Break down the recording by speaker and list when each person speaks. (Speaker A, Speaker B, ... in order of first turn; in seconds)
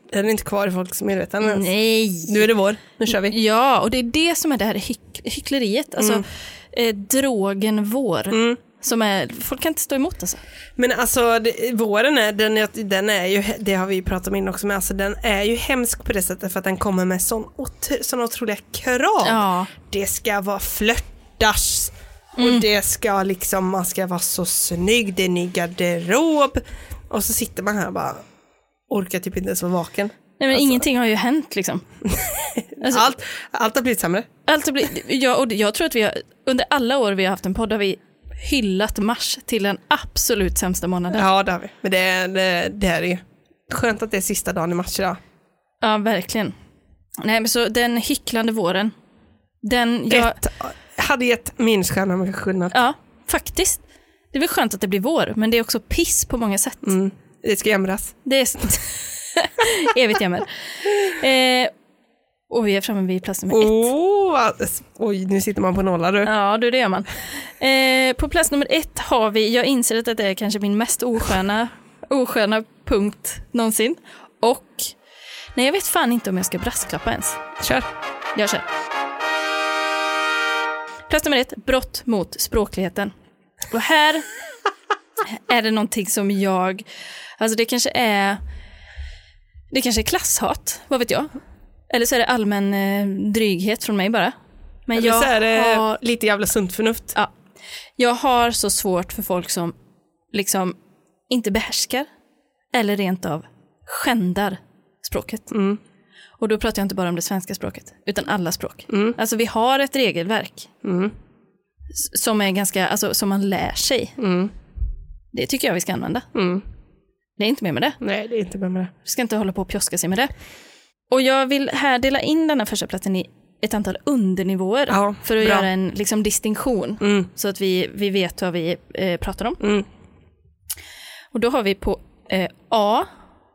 Speaker A: 0.1-1.7, 2.2-3.4, 6.0-6.2, 8.3-8.6, 10.8-28.2, 28.9-30.8, 32.1-34.3, 41.1-45.2, 50.1-52.8, 56.8-58.2, 63.5-66.3, 77.6-77.9, 94.9-97.2, 105.5-105.8, 108.9-109.2, 110.8-111.1, 114.2-114.5, 116.3-116.6, 118.0-118.9, 124.9-125.7, 127.0-127.3, 129.6-129.9
Speaker B: 1.4-2.5, 3.1-10.4, 19.2-19.7, 22.4-22.6, 30.4-31.8, 32.8-33.0, 34.5-41.2, 45.8-46.5, 47.2-48.9, 49.6-50.4, 52.7-56.9, 58.2-61.7, 62.5-63.9, 66.2-74.9, 75.5-77.4, 78.3-78.6, 81.1-83.1, 83.7-84.2, 85.2-86.8, 87.4-88.4, 89.7-91.3, 91.9-94.3, 94.9-95.9, 98.0-99.7, 100.3-100.8, 101.3-102.1, 102.7-105.5, 106.4-110.7, 112.0-114.2, 115.3-116.3, 117.4-118.0, 119.0-120.3, 121.1-129.6, 131.3-133.1